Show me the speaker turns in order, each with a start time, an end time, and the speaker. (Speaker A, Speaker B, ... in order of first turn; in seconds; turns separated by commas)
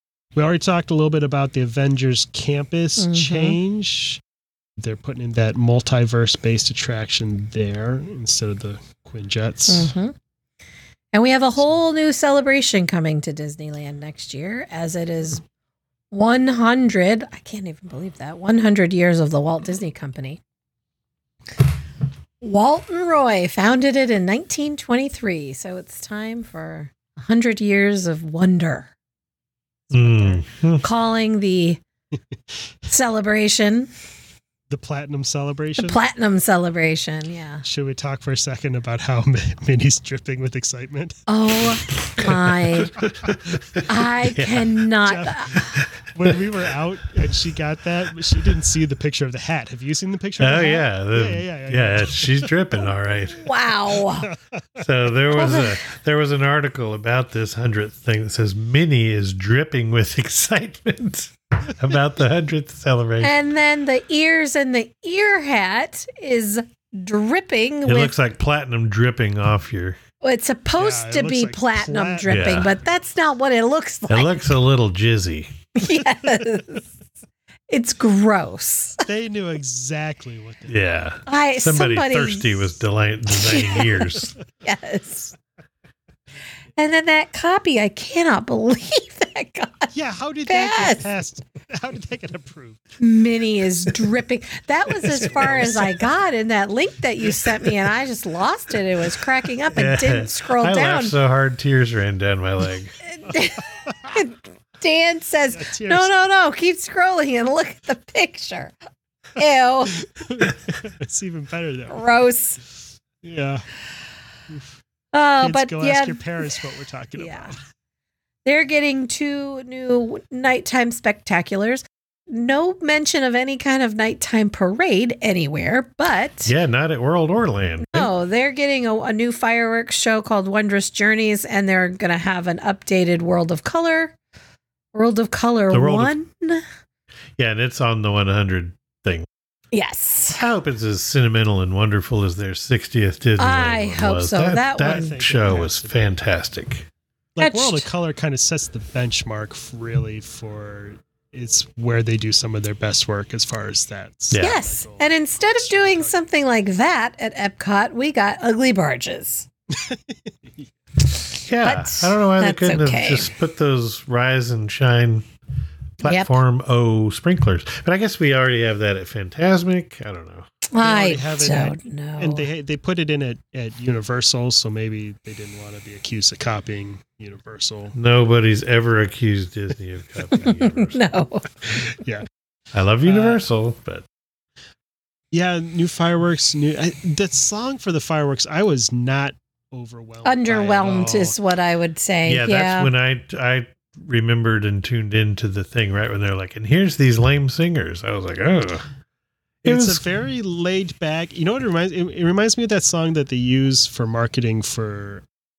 Speaker A: 0.3-4.2, Speaker B: 3.0-3.6, Speaker A: 4.8-9.9, Speaker B: 9.7-10.2, Speaker B: 11.1-15.4, Speaker B: 16.1-20.4, Speaker B: 22.4-28.9, Speaker C: 29.9-30.8, Speaker A: 30.0-30.3, Speaker B: 30.8-31.8, Speaker B: 32.9-33.9, Speaker A: 34.7-36.0, Speaker B: 35.8-37.6, Speaker A: 37.6-41.2, Speaker B: 41.3-43.0, Speaker C: 42.2-44.7, Speaker B: 43.9-45.8, Speaker A: 45.0-52.7, Speaker C: 50.4-53.5, Speaker B: 53.3-54.3, Speaker A: 54.0-54.8, Speaker C: 54.8-63.3, Speaker B: 55.3-55.8, Speaker B: 63.2-68.1, Speaker C: 67.8-70.0, Speaker B: 70.2-74.4, Speaker A: 70.8-72.5, Speaker C: 72.3-72.8, Speaker C: 74.1-75.5, Speaker B: 75.8-76.9, Speaker B: 77.7-79.0, Speaker A: 79.1-80.7, Speaker C: 80.7-84.3, Speaker B: 81.3-85.3, Speaker B: 86.8-89.9, Speaker A: 89.9-93.0, Speaker B: 90.5-91.0, Speaker B: 93.0-101.2, Speaker A: 95.0-96.1, Speaker C: 99.7-103.0, Speaker B: 103.0-108.7, Speaker A: 103.9-104.2, Speaker A: 105.5-106.1, Speaker B: 109.4-110.0, Speaker A: 110.0-112.0, Speaker B: 111.9-112.6, Speaker A: 113.2-113.7, Speaker B: 115.1-116.6, Speaker A: 115.4-117.6, Speaker B: 117.2-117.5, Speaker B: 118.5-126.5, Speaker C: 126.5-128.1, Speaker B: 127.9-134.1, Speaker B: 134.9-136.6, Speaker C: 135.7-136.1, Speaker C: 137.4-139.3, Speaker B: 139.7-140.4, Speaker C: 140.4-146.9, Speaker B: 143.4-145.2, Speaker A: 144.8-146.1, Speaker A: 147.4-156.2, Speaker B: 147.4-147.8, Speaker C: 154.3-154.6, Speaker B: 154.4-159.5, Speaker A: 159.7-160.7, Speaker C: 161.5-165.2, Speaker B: 161.6-163.3, Speaker C: 166.0-170.5, Speaker B: 166.0-166.4, Speaker B: 170.7-172.5, Speaker A: 170.8-177.9, Speaker C: 177.9-181.0, Speaker B: 180.4-181.5, Speaker A: 182.0-182.3, Speaker C: 182.7-184.1, Speaker A: 183.0-183.4, Speaker A: 185.3-191.4, Speaker B: 190.2-192.9, Speaker C: 192.3-198.9, Speaker C: 199.6-200.0, Speaker A: 199.6-205.2